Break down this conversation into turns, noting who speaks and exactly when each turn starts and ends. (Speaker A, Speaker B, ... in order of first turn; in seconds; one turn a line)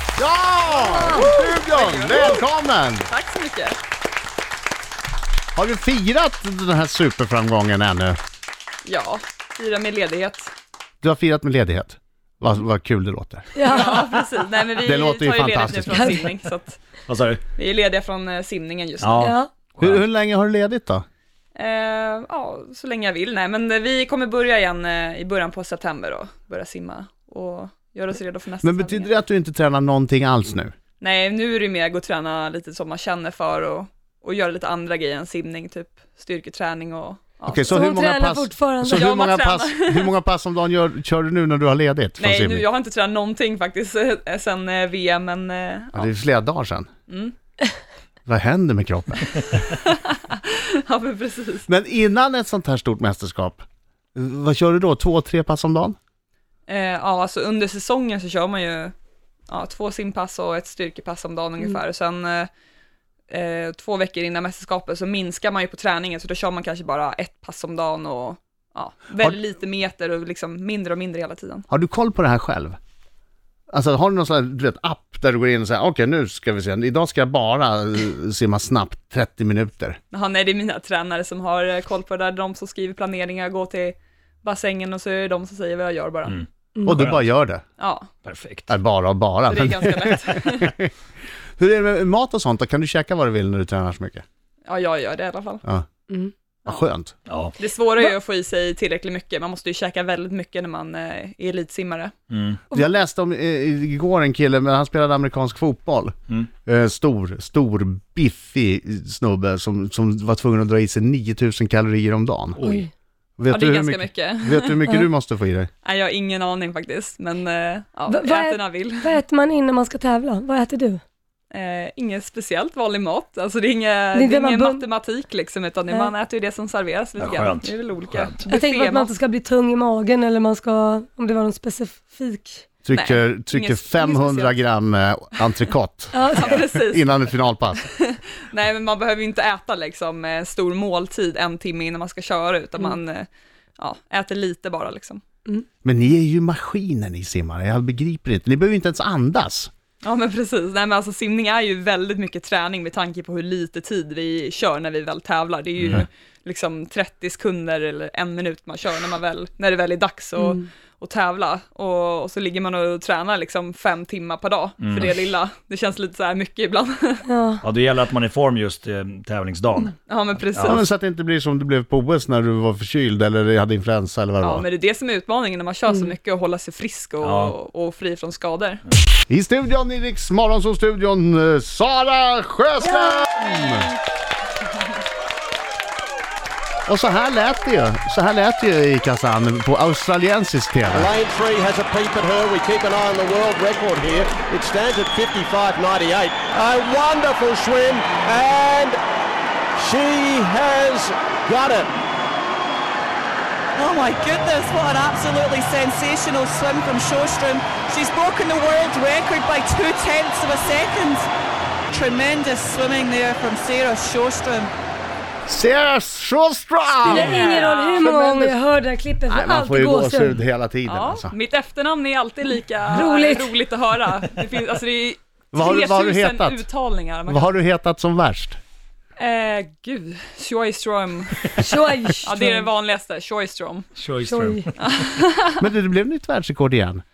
Speaker A: 0.2-3.1
Speaker B: 0.7-2.4
Speaker C: 1.1-1.4
Speaker B: 3.1-3.8
Speaker A: 5.5-8.2
Speaker B: 8.8-10.5
Speaker A: 11.0-13.5
Speaker C: 13.5-14.2
Speaker B: 13.6-16.8
Speaker A: 14.8-16.2
Speaker D: 17.1-17.4
Speaker B: 17.5-19.2
Speaker D: 19.0-20.0
Speaker C: 19.2-19.5
Speaker A: 19.8-21.0
Speaker B: 21.5-29.1
Speaker A: 28.6-30.7
Speaker B: 31.0-37.8
Speaker A: 37.5-42.6
Speaker C: 37.7-39.1
Speaker B: 38.9-40.1
Speaker B: 42.2-46.1
Speaker A: 45.9-46.9
Speaker B: 47.1-47.3
Speaker A: 48.2-49.3
Speaker B: 49.7-51.7
Speaker A: 51.7-56.0
Speaker B: 56.7-58.9
Speaker B: 59.5-62.5
Speaker B: 63.3-71.6
Speaker A: 71.7-72.8
Speaker A: 73.7-80.0
Speaker B: 80.1-86.4
Speaker D: 86.3-87.3
Speaker A: 86.8-87.6
Speaker B: 87.8-88.1
Speaker D: 88.2-88.7
Speaker A: 88.7-90.9
Speaker B: 89.5-90.7
Speaker A: 91.6-94.2
Speaker B: 94.7-95.6
Speaker A: 96.7-97.1
Speaker D: 97.3-97.5
Speaker B: 97.6-102.1
Speaker D: 102.3-102.6
Speaker A: 102.7-106.1
Speaker A: 106.7-112.7
Speaker D: 112.6-112.8
Speaker C: 112.6-112.9
Speaker A: 113.4-115.7
Speaker B: 113.5-114.8
Speaker B: 115.8-119.2
Speaker C: 118.1-121.0
Speaker B: 121.5-129.1
Speaker C: 124.1-124.8
Speaker D: 127.2-128.5
Speaker C: 128.4-132.8
Speaker A: 132.8-137.8
Speaker B: 132.9-134.6
Speaker C: 136.1-136.5
Speaker B: 136.3-145.2
Speaker A: 145.8-149.7
Speaker B: 150.0-167.3
Speaker D: 164.8-165.2
Speaker C: 167.3-167.6
Speaker D: 167.6-169.9
Speaker B: 170.1-170.9
Speaker D: 170.5-170.8
Speaker A: 170.6-174.6
Speaker B: 174.4-178.8
Speaker D: 177.2-177.5
Speaker A: 179.3-183.9
Speaker B: 183.1-184.0
Speaker A: 186.9-191.1
Speaker E: 190.9-199.0
Speaker E: 199.7-201.9
Speaker F: 203.8-211.3
Speaker F: 211.9-214.7
Speaker A: 215.4-218.6
Speaker B: 217.1-218.1
Speaker C: 217.1-220.4
Speaker D: 217.1-217.5
Speaker A: 219.3-221.3
Speaker B: 220.8-227.5
Speaker C: 222.9-223.6
Speaker A: 225.5-226.6
Speaker A: 227.3-228.6
Speaker B: 229.2-231.6
Speaker C: 231.6-232.7
Speaker B: 232.2-234.0
Speaker D: 234.0-235.1
Speaker C: 234.2-234.7
Speaker B: 234.8-235.6
Speaker A: 235.6-237.0